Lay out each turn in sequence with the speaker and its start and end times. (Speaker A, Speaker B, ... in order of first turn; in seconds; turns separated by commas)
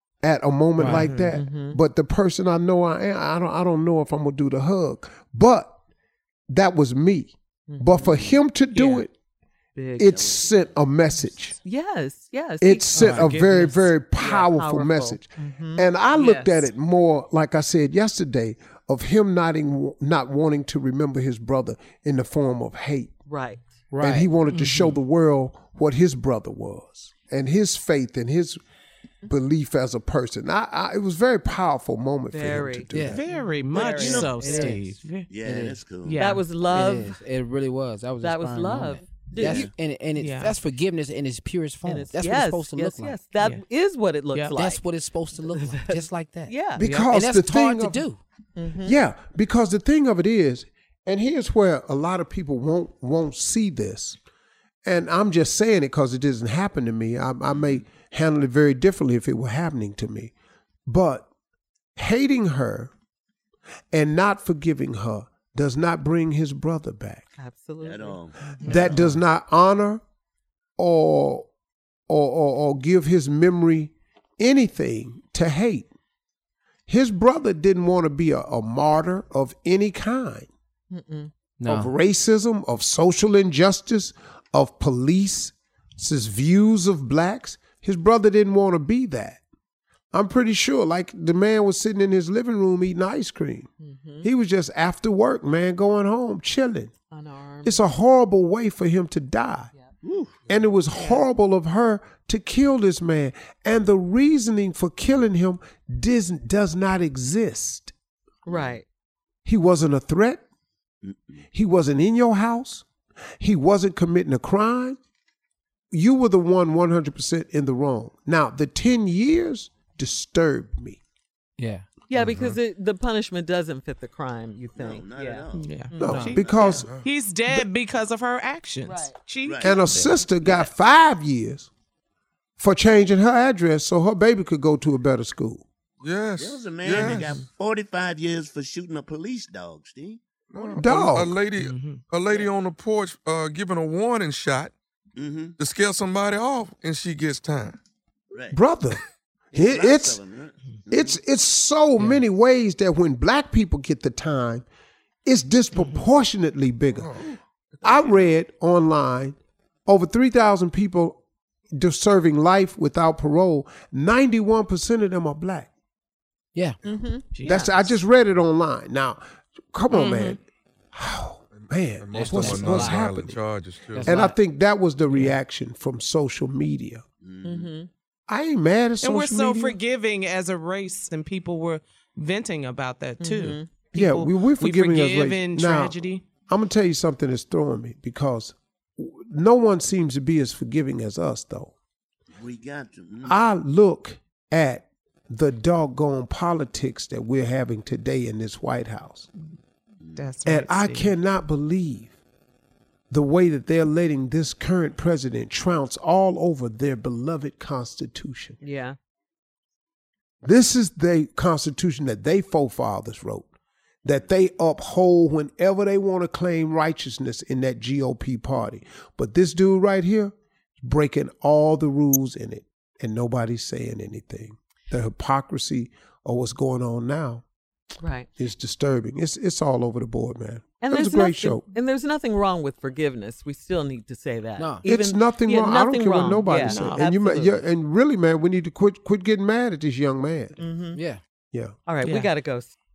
Speaker A: 0.2-5.7, Speaker B: 0.8-1.4, Speaker C: 1.3-1.8, Speaker A: 6.5-9.1, Speaker C: 7.7-8.0, Speaker D: 8.0-8.4, Speaker B: 8.8-9.1, Speaker C: 9.8-10.1, Speaker A: 10.0-11.6, Speaker D: 10.0-10.8, Speaker C: 11.6-13.1, Speaker A: 12.6-23.1, Speaker B: 12.9-13.9, Speaker E: 13.0-13.3, Speaker C: 14.2-16.4, Speaker B: 16.2-16.6, Speaker C: 23.3-23.7, Speaker E: 23.9-24.3, Speaker A: 24.0-28.6, Speaker B: 24.5-25.0, Speaker A: 29.3-33.2, Speaker C: 32.3-34.8, Speaker E: 32.9-33.2, Speaker B: 33.1-35.3, Speaker D: 33.8-34.4, Speaker E: 34.0-35.8, Speaker D: 35.3-36.4, Speaker B: 36.0-36.5, Speaker C: 36.2-37.2, Speaker E: 36.7-43.2, Speaker C: 38.2-39.7, Speaker D: 39.4-39.7, Speaker B: 40.2-40.6, Speaker C: 41.9-44.8, Speaker B: 43.4-43.6, Speaker B: 44.3-44.6, Speaker E: 44.5-48.2, Speaker C: 45.4-46.8, Speaker A: 46.8-48.0, Speaker C: 48.6-49.0, Speaker A: 48.8-54.2, Speaker A: 54.9-60.3, Speaker D: 57.5-57.8, Speaker A: 60.9-61.3, Speaker A: 62.0-62.9, Speaker A: 63.9-67.3, Speaker C: 67.4-68.8, Speaker D: 67.8-68.5, Speaker A: 68.6-70.0, Speaker B: 68.6-69.0, Speaker A: 70.8-71.5, Speaker A: 72.1-75.9, Speaker A: 76.9-80.5, Speaker C: 80.9-81.3, Speaker E: 81.6-81.9, Speaker A: 81.7-89.4, Speaker A: 90.1-93.7, Speaker C: 93.8-94.3, Speaker A: 94.2-96.9, Speaker C: 97.1-97.8, Speaker A: 97.6-99.7, Speaker D: 100.0-100.4, Speaker A: 100.5-107.9, Speaker B: 100.9-101.2, Speaker C: 108.5-108.8, Speaker D: 108.5-108.8, Speaker A: 109.5-110.4, Speaker D: 111.0-111.4, Speaker A: 111.5-112.9, Speaker A: 113.4-115.0, Speaker A: 115.9-121.0, Speaker E: 121.6-121.9, Speaker C: 122.1-126.3, Speaker F: 122.1-122.6, Speaker D: 124.8-126.9, Speaker B: 125.5-130.2, Speaker A: 126.0-126.9, Speaker F: 126.8-127.1, Speaker C: 128.8-129.2, Speaker D: 129.4-129.8, Speaker A: 129.6-131.7, Speaker D: 130.4-130.7, Speaker A: 132.6-135.7, Speaker F: 136.0-137.4, Speaker D: 136.4-140.2, Speaker F: 140.5-144.7, Speaker A: 140.7-141.4, Speaker B: 141.6-142.0, Speaker D: 145.2-145.6, Speaker F: 145.6-147.8, Speaker D: 148.3-148.6, Speaker A: 148.5-149.0, Speaker A: 149.5-150.2, Speaker D: 149.5-151.2, Speaker A: 150.9-154.7, Speaker A: 155.2-157.2, Speaker F: 157.0-157.3, Speaker A: 157.8-159.4, Speaker D: 157.9-158.2, Speaker A: 159.9-161.2, Speaker A: 161.7-165.7, Speaker C: 166.8-167.7, Speaker B: 167.3-168.0, Speaker A: 167.4-170.4, Speaker B: 169.9-170.4, Speaker A: 170.9-173.4, Speaker F: 171.8-174.3, Speaker E: 172.1-173.0, Speaker E: 173.9-174.4, Speaker A: 174.0-177.0, Speaker B: 175.1-175.4, Speaker D: 177.2-177.7, Speaker C: 177.4-177.9, Speaker A: 178.3-179.8, Speaker B: 179.0-186.3, Speaker C: 183.2-183.7, Speaker A: 183.9-191.7, Speaker D: 192.4-193.4, Speaker A: 193.2-199.3, Speaker D: 200.0-200.3, Speaker B: 200.2-201.2, Speaker A: 200.4-202.1, Speaker A: 203.1-208.6, Speaker C: 208.6-209.0, Speaker A: 210.4-213.5, Speaker A: 214.0-227.4, Speaker C: 228.0-228.3, Speaker A: 228.4-231.7, Speaker C: 230.8-237.6, Speaker E: 234.6-234.8, Speaker A: 234.8-240.6, Speaker B: 236.6-237.0, Speaker C: 240.6-241.0, Speaker E: 240.9-241.2, Speaker C: 241.9-242.8, Speaker B: 242.0-242.3